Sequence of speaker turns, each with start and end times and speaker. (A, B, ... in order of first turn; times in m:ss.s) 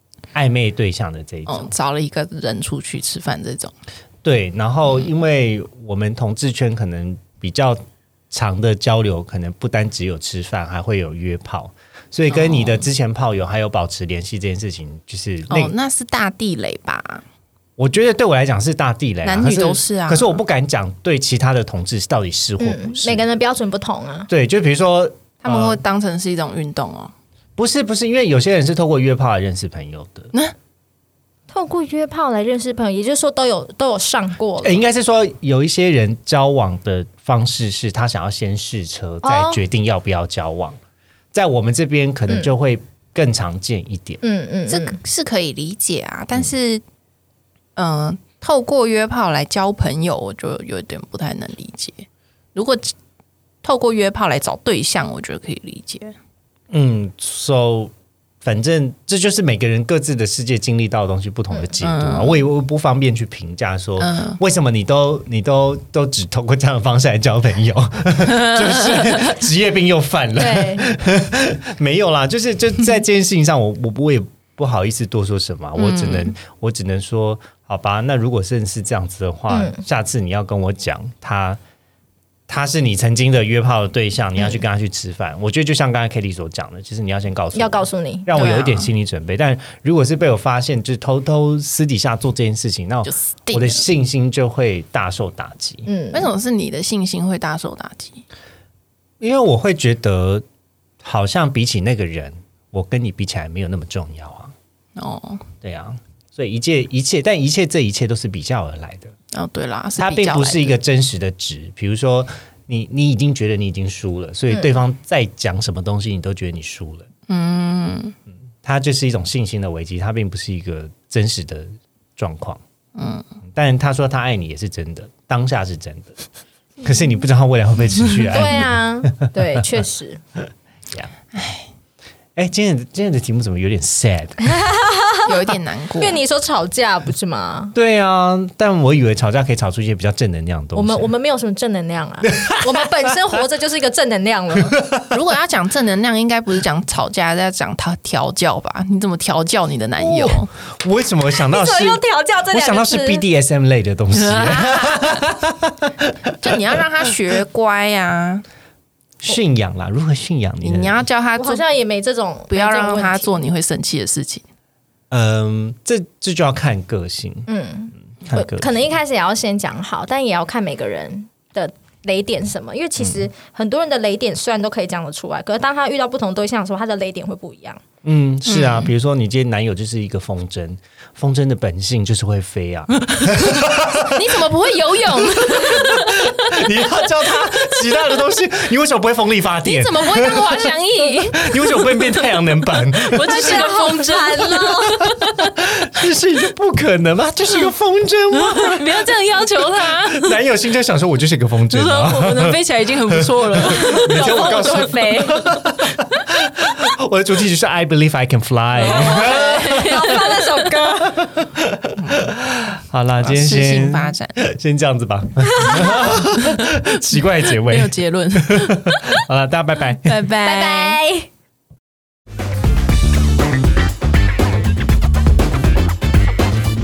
0:00.3-0:01.7 A
0:01.5-0:03.7 B
0:04.2-0:15.7 A
0:12.3-0:12.8 B
0:15.5-0:17.2 B
0:17.8-0:23.2 A
0:19.2-0:20.4 B
0:22.6-0:24.3 C
0:24.3-0:25.8 A
0:25.4-0:27.1 B
0:27.6-0:30.3 A
0:31.5-0:34.8 C
0:34.6-0:40.8 A
0:39.2-0:39.6 C
0:41.3-0:44.2 A
0:44.2-0:45.0 C
0:44.7-0:46.8 B
0:47.8-0:52.9 B
0:53.6-0:56.2 B
0:56.7-0:57.9 A
0:58.4-1:21.6 A
1:01.8-1:02.4 B
1:04.0-1:04.4 B
1:08.3-1:09.2 B
1:10.4-1:10.9 C
1:15.8-1:16.3 B
1:19.5-1:19.8 C
1:22.5-1:35.9 A
1:27.6-1:28.3 C
1:28.4-1:28.9 B
1:33.0-1:33.8 B
1:35.9-1:36.3 C
1:36.1-1:38.2 B
1:39.2-1:40.4 A
1:41.0-1:44.5 A
1:45.0-1:45.4 B
1:45.6-1:49.1 A
1:49.3-1:50.8 B
1:50.0-1:57.1 A
1:57.3-1:58.2 B
1:58.6-2:02.6 A
2:02.9-2:03.2 B
2:03.5-2:06.2 A
2:06.8-2:09.6 A
2:08.3-2:10.2 C
2:11.3-2:11.7 B
2:12.4-2:14.6 A
2:14.5-2:15.4 C
2:15.2-2:16.2 B
2:16.0-2:17.7 C
2:17.7-2:21.1 A
2:20.7-2:24.8 C
2:22.2-2:22.8 A
2:24.7-2:25.1 A
2:25.1-2:30.5 B
2:30.8-2:32.0 A
2:31.5-2:33.2 C
2:32.5-2:36.6 A
2:34.1-2:35.2 B
2:36.4-2:38.4 B
2:39.2-2:41.0 A
2:40.6-2:41.6 B
2:41.4-2:43.3 C
2:42.5-2:44.4 B
2:45.1-2:47.5 A
2:47.5-2:57.8 C
2:48.2-2:48.8 A
2:53.0-2:53.3 A
2:58.0-3:04.2 A
2:58.5-2:58.9 B
3:03.4-3:06.7 B
3:05.3-3:10.7 A
3:09.6-3:11.9 B
3:11.3-3:13.6 A
3:13.0-3:15.5 B
3:13.1-3:15.1 C
3:15.0-3:19.1 A
3:18.3-3:20.4 B
3:20.0-3:22.6 A
3:21.7-3:25.3 B
3:23.1-3:30.3 A
3:23.8-3:25.4 C
3:28.8-3:30.9 B
3:28.8-3:31.2 C
3:31.1-3:40.2 A
3:32.0-3:32.2 B
3:33.2-3:34.4 B
3:35.4-3:36.0 C
3:37.4-3:39.0 B
3:40.0-3:41.0 B
3:40.4-3:41.3 C